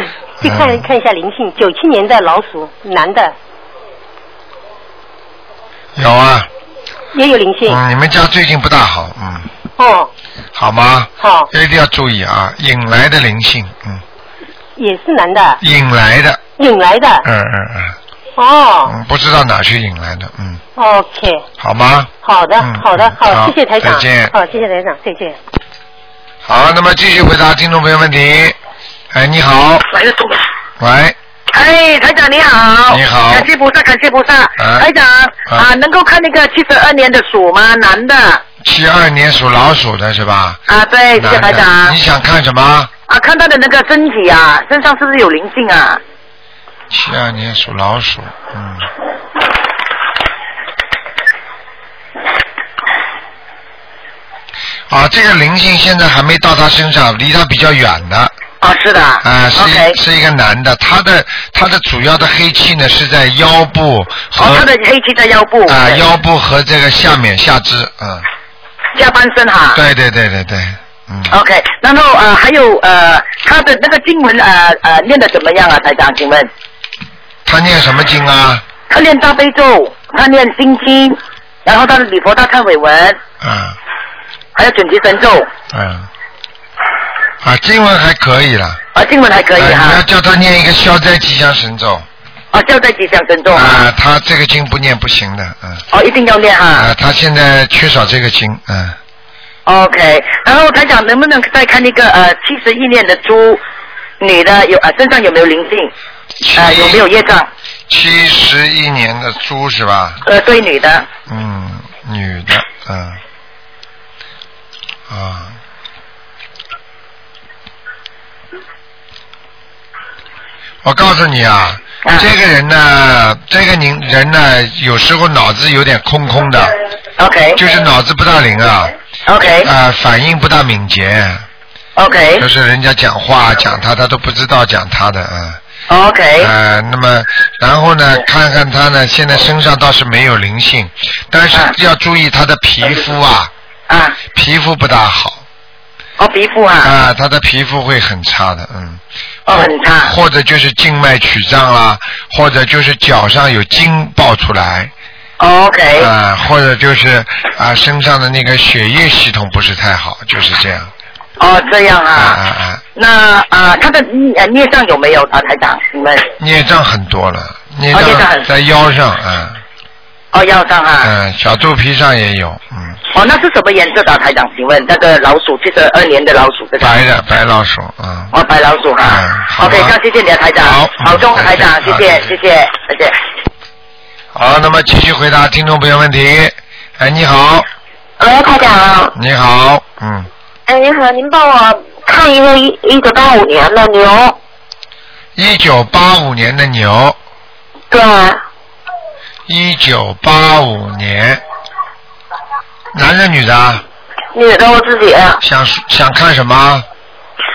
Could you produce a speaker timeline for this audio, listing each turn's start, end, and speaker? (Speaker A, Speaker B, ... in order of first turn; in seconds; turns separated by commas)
Speaker A: 0.4-0.8, Speaker B: 0.4-3.3, Speaker A: 6.0-6.5, Speaker B: 7.1-7.8, Speaker A: 7.7-9.5, Speaker B: 9.8-10.1, Speaker A: 10.5-14.0, Speaker B: 11.2-11.5, Speaker B: 14.8-15.6, Speaker A: 15.6-16.4, Speaker B: 16.6-17.2, Speaker A: 17.2-18.0, Speaker B: 18.4-18.9, Speaker A: 18.9-20.6, Speaker B: 20.8-21.4, Speaker A: 21.6-24.3, Speaker B: 22.2-25.4, Speaker A: 26.4-28.6, Speaker A: 29.1-29.9, Speaker C: 29.9-30.4, Speaker A: 30.8-31.2, Speaker C: 31.5-38.4, Speaker A: 32.9-33.5, Speaker A: 34.6-34.9, Speaker A: 38.6-40.6, Speaker C: 40.7-42.0, Speaker A: 41.2-42.9, Speaker C: 43.1-46.0, Speaker A: 46.9-48.9, Speaker A: 54.9-58.3, Speaker C: 58.6-60.0, Speaker A: 59.2-64.7, Speaker C: 64.4-66.0, Speaker A: 65.7-68.2, Speaker C: 69.0-69.8, Speaker A: 69.7-71.3, Speaker C: 71.3-76.5, Speaker A: 77.5-78.6, Speaker C: 78.9-83.2, Speaker A: 83.4-83.8, Speaker C: 84.6-85.5, Speaker A: 85.7-86.1, Speaker A: 87.4-88.8, Speaker C: 88.9-90.0, Speaker A: 89.6-92.1, Speaker C: 92.5-93.9, Speaker A: 93.5-95.8, Speaker C: 95.9-96.9, Speaker A: 96.8-99.0, Speaker C: 99.7-103.6, Speaker C: 104.2-105.9, Speaker A: 106.4-107.1, Speaker C: 106.6-107.5, Speaker A: 107.9-110.2, Speaker C: 110.2-111.1, Speaker A: 111.3-113.2, Speaker A: 115.1-115.6, Speaker A: 120.8-126.7, Speaker C: 127.2-127.6, Speaker A: 127.6-128.9, Speaker C: 129.2-129.7, Speaker A: 129.6-131.4, Speaker C: 132.0-132.5, Speaker A: 132.4-135.6, Speaker C: 135.9-136.5, Speaker A: 136.4-143.5, Speaker C: 143.9-144.2, Speaker A: 144.3-145.4, Speaker C: 146.2-146.9, Speaker A: 146.8-149.0, Speaker C: 149.5-150.1, Speaker A: 149.5-154.9, Speaker C: 155.4-156.1, Speaker A: 156.0-160.9, Speaker C: 161.4-162.4, Speaker A: 162.2-162.8, Speaker C: 163.0-166.2, Speaker A: 166.4-169.6, Speaker C: 167.9-168.5, Speaker C: 170.3-171.1, Speaker A: 171.0-173.0, Speaker C: 173.1-176.9, Speaker A: 176.8-178.3, Speaker C: 178.3-183.2, Speaker A: 179.0-180.0, Speaker A: 180.6-182.3, Speaker A: 184.3-187.7, Speaker D: 188.2-189.1, Speaker A: 189.2-190.3, Speaker D: 190.7-194.4, Speaker A: 195.4-197.2, Speaker D: 197.9-198.4, Speaker A: 199.5-201.4, Speaker A: 202.9-203.8, Speaker D: 204.3-205.4, Speaker A: 205.4-206.8